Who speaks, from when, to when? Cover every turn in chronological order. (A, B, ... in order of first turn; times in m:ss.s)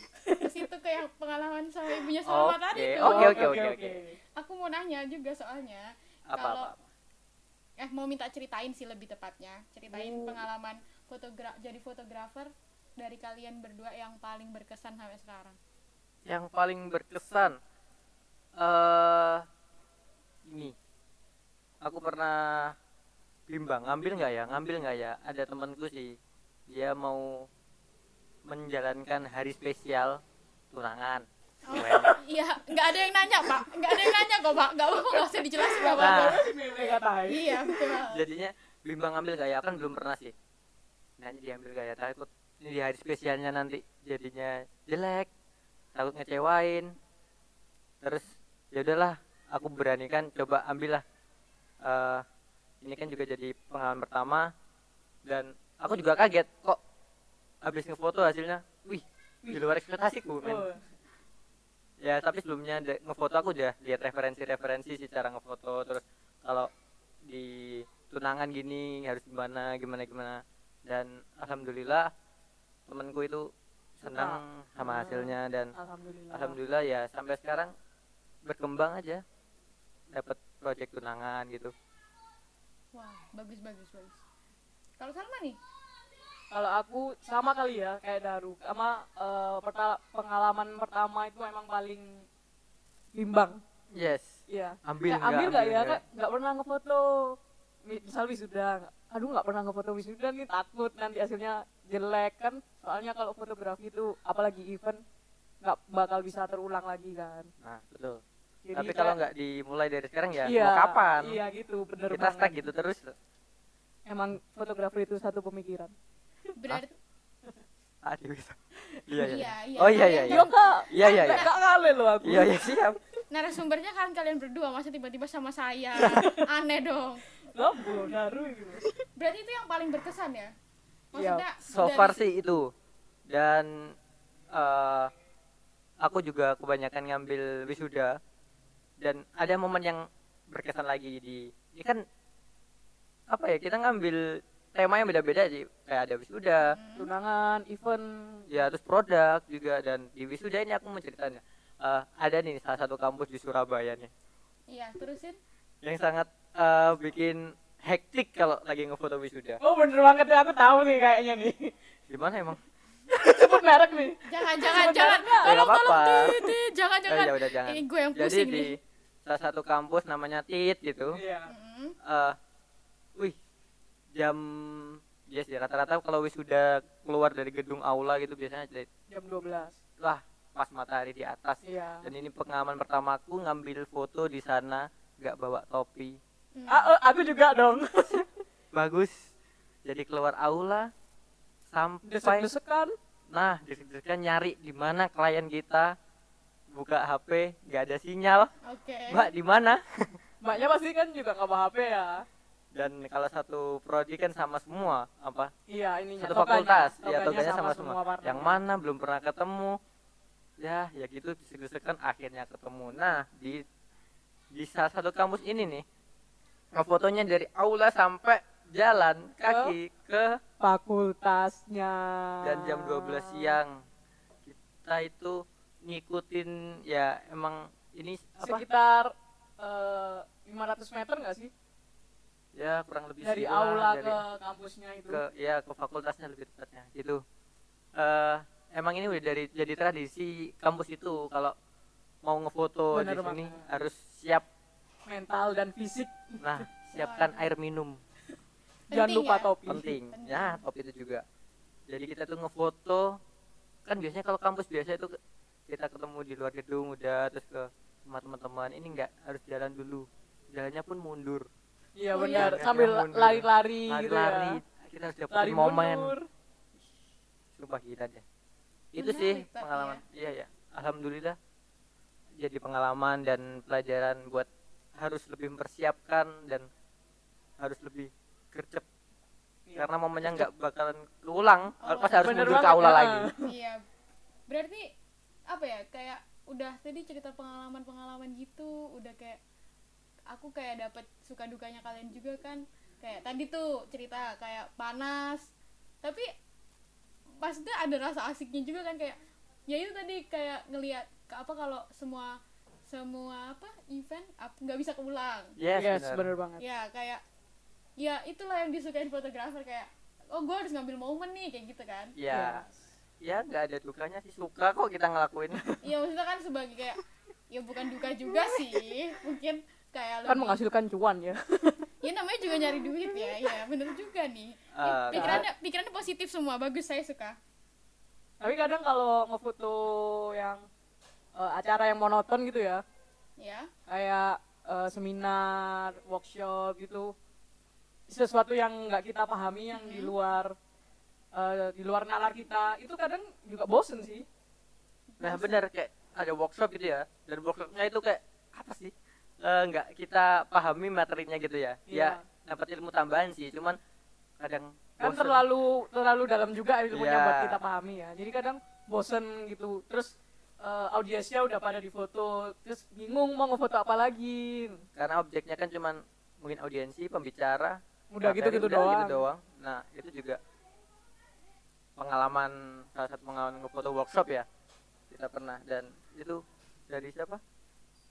0:00.2-0:00.5 A
0:00.4-0:03.6 B
0:02.3-0:04.0 C
0:03.0-0:04.2 A
0:04.4-0:06.7 B
0:06.3-0:06.8 C
0:07.8-0:15.6 B
0:09.9-0:10.4 A
0:16.3-0:17.6 C
0:18.6-0:19.4 C
0:20.5-0:20.8 C
0:21.8-0:22.8 C
0:23.5-0:26.2 C
0:26.7-0:27.5 C
0:28.5-0:30.2 C
0:30.7-0:32.2 C
0:31.6-0:36.5 B
0:35.2-0:38.0 A
0:36.0-0:36.4 C
0:37.3-0:38.2 B
0:38.1-0:40.3 C
0:41.2-0:45.3 C
0:46.0-0:46.9 C
0:48.0-0:51.0 C
0:51.8-0:52.2 C
0:52.8-0:54.5 C
0:55.2-0:56.8 C
0:57.6-1:00.7 C
1:00.4-1:00.8 A
1:02.0-1:06.7 C
1:07.2-1:12.1 C
1:12.9-1:15.7 C
1:14.0-1:16.6 A
1:16.3-1:17.7 C
1:18.4-1:19.2 C
1:20.1-1:21.7 C
1:22.9-1:24.2 B
1:25.0-1:25.6 B
1:26.5-1:32.2 A
1:33.1-1:33.6 A
1:33.9-1:36.0 C
1:34.5-1:45.0 A
1:45.6-1:47.5 A
1:47.6-1:48.2 C
1:48.6-1:49.2 A
1:48.7-1:51.4 C
1:50.4-1:52.6 A
1:52.1-1:53.1 C
1:54.1-1:55.9 A
1:56.6-1:56.9 B
1:58.0-2:01.4 C
1:59.2-2:01.5 B
2:00.3-2:02.8 A
2:02.2-2:03.0 C
2:03.3-2:07.2 B
2:06.0-2:06.5 A
2:07.5-2:08.9 A
2:09.2-2:10.5 B
2:11.1-2:12.2 B
2:11.2-2:11.4 A
2:11.6-2:12.7 C
2:13.3-2:14.0 C
2:14.5-2:15.1 C
2:16.0-2:18.2 C
2:19.0-2:22.0 C
2:23.3-2:26.8 C
2:26.6-2:27.1 B
2:27.0-2:28.5 A
2:28.5-2:34.1 C
2:34.7-2:35.4 B
2:35.8-2:39.6 C
2:39.6-2:41.7 A
2:42.1-2:42.6 C
2:43.1-2:45.6 A
2:44.2-2:48.8 B
2:45.4-2:46.4 C
2:47.1-2:51.2 C
2:51.1-2:51.5 A
2:51.5-2:52.0 B
2:52.0-2:52.4 C
2:54.2-2:58.9 C
2:59.1-2:59.8 A
3:00.0-3:06.2 C
3:01.6-3:02.1 A
3:06.6-3:06.9 B
3:06.7-3:08.3 A
3:08.7-3:09.3 C
3:09.8-3:10.9 C
3:11.7-3:12.5 C
3:12.1-3:12.9 A
3:13.3-3:15.9 C
3:16.7-3:18.5 C
3:18.6-3:19.3 B
3:19.1-3:20.2 C
3:20.4-3:22.2 A
3:22.8-3:25.5 C
3:25.7-3:28.6 A
3:26.2-3:29.8 C
3:30.6-3:33.6 C
3:34.5-3:35.8 C
3:36.7-3:40.4 C
3:39.5-3:39.8 A
3:40.6-3:43.6 A
3:42.4-3:43.8 C
3:44.4-3:48.6 C
3:48.4-3:51.5 A
3:52.6-3:54.2 C
3:53.2-3:55.2 A
3:55.1-3:57.2 C
3:58.0-4:01.5 C
4:02.2-4:04.4 C
4:02.9-4:03.6 A
4:05.1-4:06.6 A
4:06.4-4:08.0 C
4:07.0-4:07.5 B
4:08.9-4:09.5 B
4:08.9-4:09.9 A
4:09.7-4:11.2 C
4:10.1-4:10.6 B
4:11.9-4:13.2 C
4:13.9-4:15.2 C
4:15.7-4:21.5 C
4:22.0-4:24.6 A
4:22.1-4:22.6 B
4:22.2-4:26.1 C
4:25.3-4:26.3 A
4:27.6-4:28.2 C
4:28.9-4:31.4 C
4:29.0-4:30.0 B
4:32.4-4:36.7 C
4:37.6-4:38.8 C
4:39.7-4:40.5 A
4:39.8-4:43.3 C
4:41.8-4:42.7 B
4:42.2-4:43.4 A
4:43.4-4:43.8 B
4:44.5-4:44.9 B
4:45.5-4:49.4 B
4:50.3-4:55.5 B
4:57.4-5:05.6 B
5:05.6-5:06.3 C
5:05.8-5:06.6 A
5:06.6-5:07.2 B
5:08.0-5:12.1 B
5:12.2-5:12.6 C
5:12.3-5:12.7 A
5:13.2-5:15.6 C
5:15.8-5:17.0 B
5:17.5-5:20.6 B
5:20.3-5:21.9 A
5:22.0-5:27.4 B
5:22.8-5:23.5 A
5:24.7-5:25.4 C
5:25.1-5:25.5 A
5:28.4-5:30.6 A
5:31.4-5:32.8 A
5:33.4-5:33.7 B
5:33.9-5:37.1 A
5:38.1-5:40.6 A
5:39.7-5:40.1 B
5:41.3-5:44.2 A
5:45.1-5:45.6 B
5:45.2-5:53.8 C
5:51.9-5:52.2 A
5:54.4-5:55.4 C
5:55.0-6:04.8 A
5:56.9-5:57.6 C
6:05.0-6:10.4 C
6:08.1-6:09.2 A
6:12.0-6:14.5 C
6:15.1-6:17.4 C